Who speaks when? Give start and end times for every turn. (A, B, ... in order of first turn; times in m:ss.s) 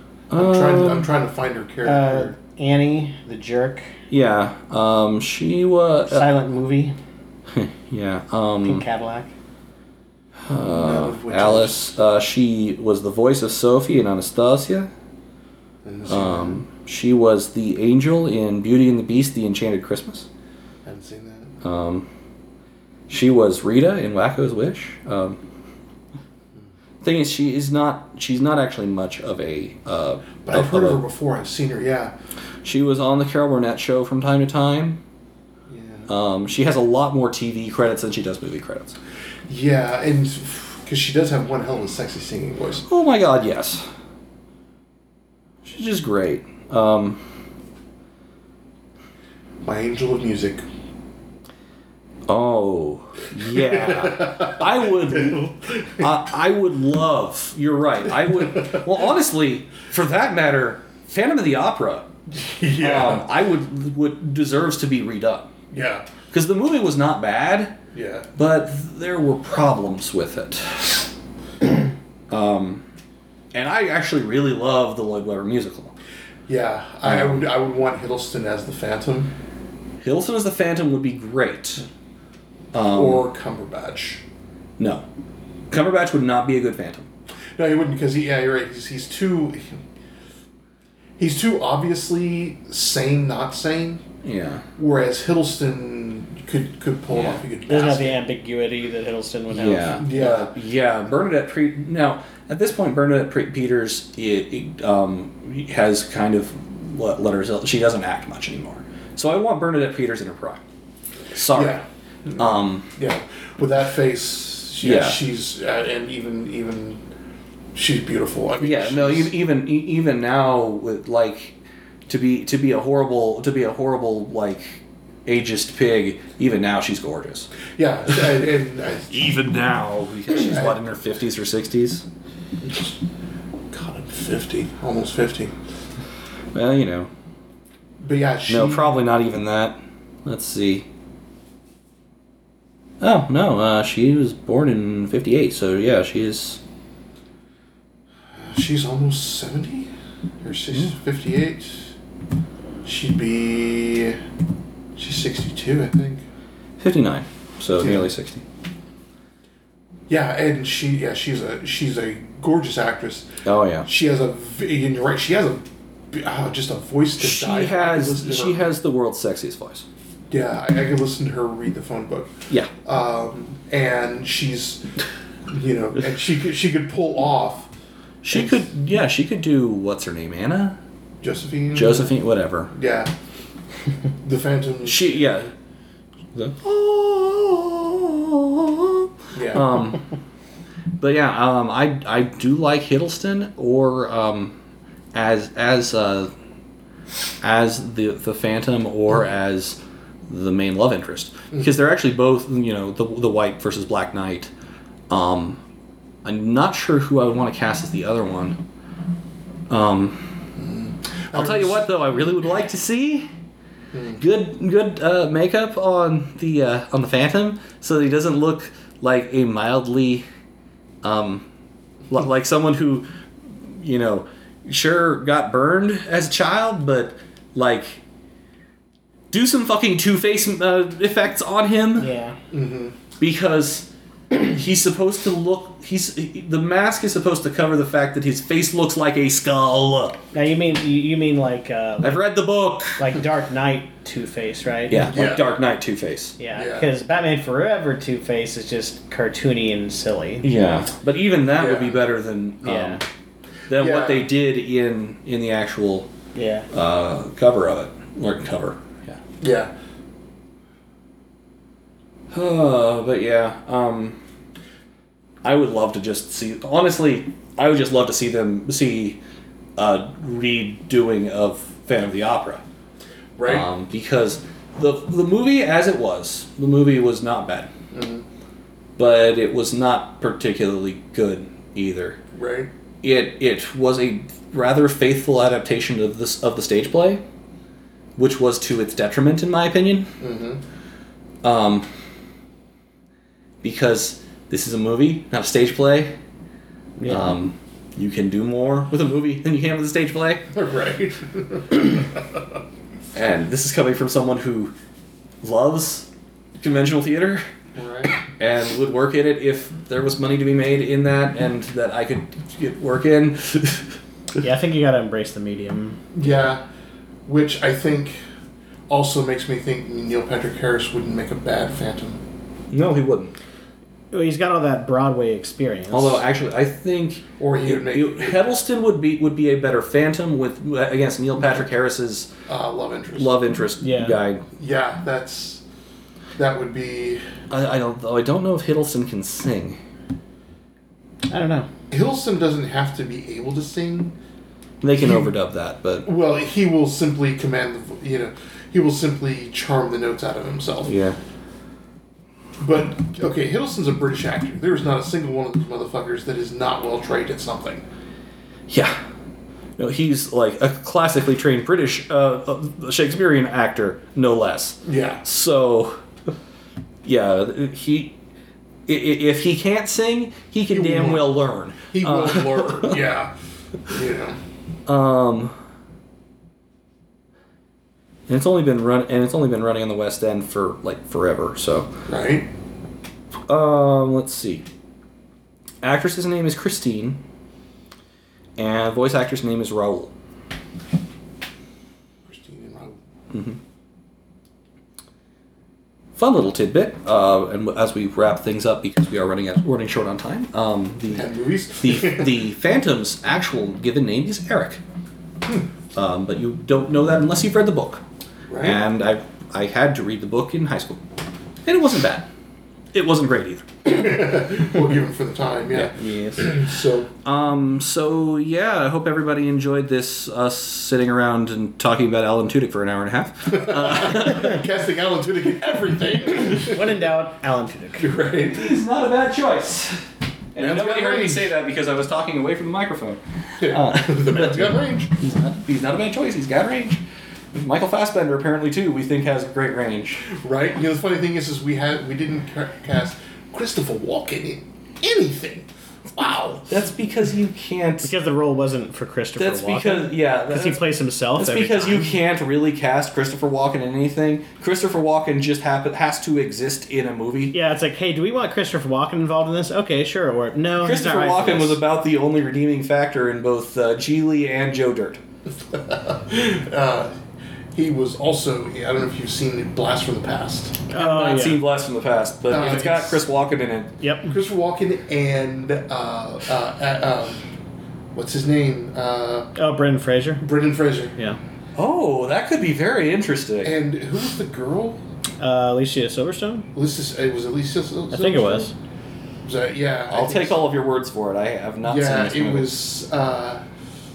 0:00.3-0:01.1 A
0:00.3-0:02.4 B
0:01.8-0:03.9 C
0:04.1-0:06.3 A
0:06.1-0:07.0 C
0:07.5-0:08.8 A
0:08.6-0:09.3 C
0:10.5-0:14.9 A
0:10.6-0:11.9 B
0:15.8-0:16.6 B
0:16.1-0:20.3 A
0:20.8-0:21.5 B
0:21.6-0:22.1 A
0:23.1-0:25.4 A
0:27.0-0:31.0 A
0:30.4-0:32.1 B
0:32.6-0:35.0 A
0:35.7-0:36.1 B
0:36.1-0:39.0 A
0:39.5-0:42.8 B
0:42.9-0:43.8 A
0:45.6-0:47.2 A
0:49.6-0:50.6 B
0:52.3-1:02.1 A
0:53.6-0:56.0 B
1:02.3-1:03.2 B
1:02.8-1:05.5 A
1:05.7-1:06.1 B
1:06.3-1:07.8 A
1:07.9-1:08.3 B
1:08.4-1:11.1 A
1:12.3-1:12.8 A
1:13.5-1:15.9 A
1:16.5-1:19.3 B
1:17.0-1:17.4 A
1:20.0-1:21.8 A
1:22.7-1:23.2 A
1:22.8-1:24.2 B
1:24.8-1:25.0 A
1:25.7-1:27.1 A
1:27.6-1:29.8 B
1:31.2-1:34.0 B
1:34.2-1:34.6 A
1:34.8-1:38.2 B
1:37.1-1:37.4 A
1:37.6-1:40.1 C
1:39.5-1:50.6 A
1:40.0-1:40.5 B
1:51.3-1:51.8 A
1:51.5-1:57.0 B
1:52.4-1:52.9 A
1:54.8-1:55.2 A
1:57.7-1:59.3 B
1:58.6-2:01.5 A
2:02.1-2:07.5 A
2:07.7-2:09.4 B
2:09.1-2:12.0 A
2:10.3-2:10.8 B
2:12.6-2:12.9 B
2:13.7-2:15.6 B
2:16.5-2:17.1 A
2:18.0-2:19.0 B
2:18.5-2:20.8 A
2:23.0-2:26.6 A
2:28.3-2:31.9 B
2:32.8-2:34.2 B
2:35.0-2:36.2 B
2:36.8-2:38.4 A
2:37.8-2:38.1 B
2:40.1-2:48.7 B
2:43.4-2:43.9 A
2:47.2-2:49.8 A
2:50.3-2:52.3 B
2:52.8-2:54.8 B
2:55.4-2:57.7 B
2:58.2-3:00.8 A
2:58.3-2:58.6 B
3:01.2-3:02.1 B
3:01.7-3:02.7 A
3:02.7-3:03.1 B
3:04.2-3:05.2 B
3:04.8-3:05.5 A
3:06.3-3:10.0 A
3:09.3-3:09.9 B
3:11.0-3:14.6 A
3:15.1-3:16.3 A
3:17.4-3:19.8 A
3:20.3-3:24.5 A
3:25.1-3:25.6 A
3:26.2-3:28.6 A
3:29.7-3:30.4 A
3:30.6-3:31.9 B
3:31.3-3:33.3 A
3:33.9-3:34.2 B
3:34.2-3:40.2 A
3:41.0-3:41.4 A
3:42.1-3:48.0 A
3:49.3-3:52.1 A
3:52.0-3:52.4 C
3:52.5-3:53.0 B
3:53.2-4:00.2 A
4:00.3-4:02.3 C
4:02.0-4:03.0 A
4:03.0-4:05.1 C
4:04.9-4:06.4 A
4:05.1-4:05.5 B
4:06.4-4:10.5 C
4:06.5-4:06.9 B
4:10.4-4:13.0 A
4:11.6-4:12.0 B
4:12.6-4:13.0 C
4:13.7-4:16.1 A
4:13.8-4:14.3 B
4:16.3-4:16.7 C
4:16.7-4:19.2 A
4:19.4-4:19.7 B
4:22.3-4:24.2 A
4:25.4-4:29.2 A
4:29.8-4:32.6 A
4:33.4-4:33.7 B
4:33.4-4:37.7 A
4:37.9-4:38.2 B
4:39.0-4:42.2 A
4:42.3-4:42.7 B
4:43.0-4:47.2 A
4:48.2-4:50.1 A
4:50.2-4:50.6 B
4:51.4-4:51.9 A
4:53.6-4:56.1 A
4:57.0-4:57.3 C
4:57.0-5:00.5 A
5:00.5-5:02.4 B
5:03.1-5:04.7 A
5:05.4-5:06.1 A
5:06.6-5:07.4 A
5:07.7-5:08.2 B
5:08.3-5:13.9 A
5:14.4-5:16.0 C
5:16.1-5:16.6 B
5:17.2-5:18.2 B
5:18.9-5:22.2 B
5:22.7-5:23.4 A
5:24.1-5:26.2 C
5:25.9-5:32.3 A
5:27.4-5:28.4 B
5:32.5-5:33.4 B
5:33.1-5:34.4 A
5:33.8-5:34.2 C
5:34.6-5:35.6 B
5:36.4-5:37.3 B
5:37.5-5:39.8 A
5:41.3-5:41.7 C
5:41.9-5:44.2 B
5:44.8-5:46.1 A
5:45.0-5:45.3 B
5:46.0-5:50.9 B
5:50.8-5:51.2 A
5:52.6-5:57.8 B
5:58.7-5:59.0 A
5:59.8-6:06.0 A
6:04.8-6:05.2 B
6:07.0-6:08.2 A
6:08.9-6:13.0 A
6:10.7-6:11.3 B
6:11.9-6:13.3 B
6:13.9-6:14.4 B
6:14.9-6:15.5 A
6:18.3-6:21.9 A
6:22.1-6:22.5 B
6:23.5-6:24.6 A
6:25.8-6:27.2 A
6:28.6-6:30.1 A
6:32.2-6:33.0 B
6:33.3-6:33.6 A
6:36.2-6:41.3 A
6:41.1-6:42.4 B
6:41.8-6:44.8 A
6:45.9-6:48.0 A
6:48.5-6:48.8 B
6:48.6-6:51.0 A
6:51.6-6:52.3 A
6:52.9-6:53.7 A
6:53.8-6:57.1 B
6:55.7-6:56.5 A
6:57.2-7:04.6 A
7:03.5-7:07.0 B
7:06.4-7:08.1 C
7:08.0-7:08.8 B
7:08.5-7:10.0 A
7:10.5-7:17.0 A
7:10.6-7:11.5 B
7:13.6-7:15.2 B
7:17.5-7:20.3 A
7:20.3-7:26.7 B
7:26.6-7:28.1 A
7:28.0-7:32.2 C
7:29.4-7:37.5 A
7:37.5-7:41.8 C
7:40.8-7:45.2 A
7:45.5-7:47.2 B
7:47.7-7:50.8 B
7:50.9-7:51.6 C
7:50.9-7:53.9 A
7:52.5-7:53.2 B
7:54.0-7:54.3 C
7:54.2-7:57.5 B
7:58.1-7:59.5 B
7:59.5-8:00.4 C
8:00.4-8:01.1 B
8:01.8-8:03.8 A
8:03.6-8:05.0 B
8:05.4-8:06.7 C
8:06.7-8:08.7 B
8:08.1-8:08.7 C
8:09.4-8:10.6 B
8:10.1-8:12.7 A
8:11.8-8:13.6 B